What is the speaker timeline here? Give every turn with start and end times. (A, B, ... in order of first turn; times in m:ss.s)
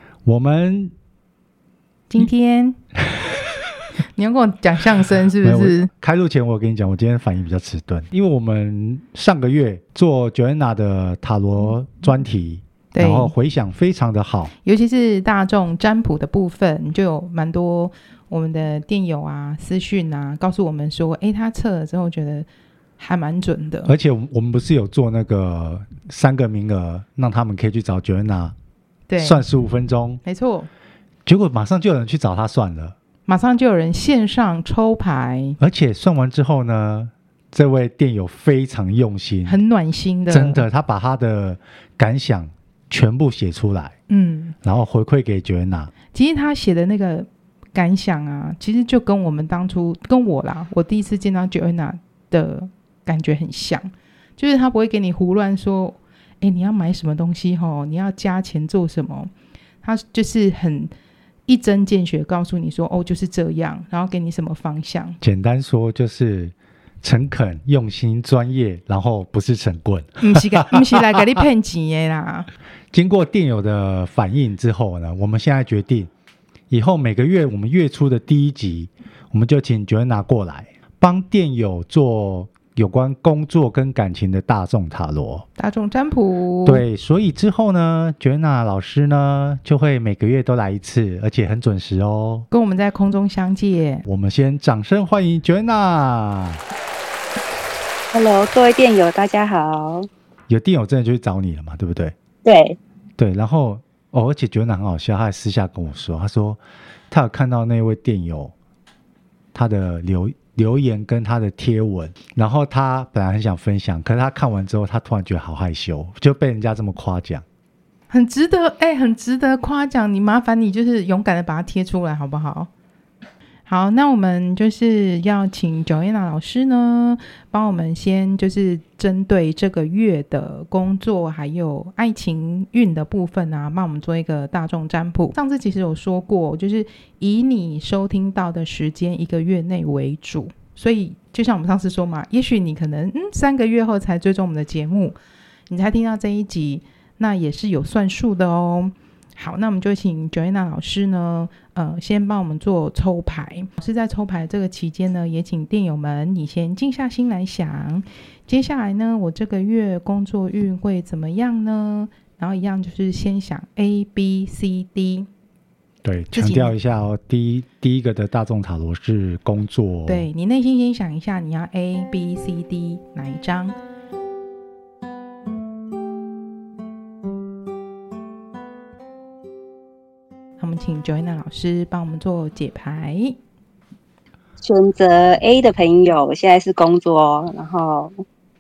0:00.2-0:00.9 A
0:02.1-0:02.8 B
0:04.1-0:05.9 B
0:05.4-0:14.5 A
0:12.9-0:13.3 B
0:14.6-0:22.5 B
0:23.0-0:23.9 B
0:23.8-0:28.5 A
0:29.1-0:29.4 B
0:29.2-0:30.2 A
0:30.2-0:30.7 B
0:31.2-0:33.0 A
0:33.3-0:35.6 B
0:35.6-0:39.6 A
0:39.4-0:40.6 B
0:40.3-0:43.9 A
0:44.1-0:44.6 B
0:44.6-0:45.9 A
0:46.1-0:59.3 B
0:59.8-1:00.9 B
1:01.5-1:05.2 B
1:05.2-1:11.0 A
1:10.2-1:12.5 B
1:12.9-1:16.1 A
1:16.7-1:25.4 A
1:25.6-1:26.8 B
1:26.6-1:32.5 A
1:32.5-1:34.0 B
1:34.0-1:36.6 A
1:38.1-1:40.1 C
1:40.5-1:42.1 A
1:42.4-1:42.8 C
1:43.2-1:48.5 A
1:49.5-1:57.4 A
1:58.1-2:02.7 B
2:03.7-2:25.2 B
2:25.7-2:45.3 B
2:46.0-2:50.3 A
2:46.3-2:46.7 B
2:50.1-2:53.7 B
3:00.6-3:03.4 B
3:04.6-3:08.1 C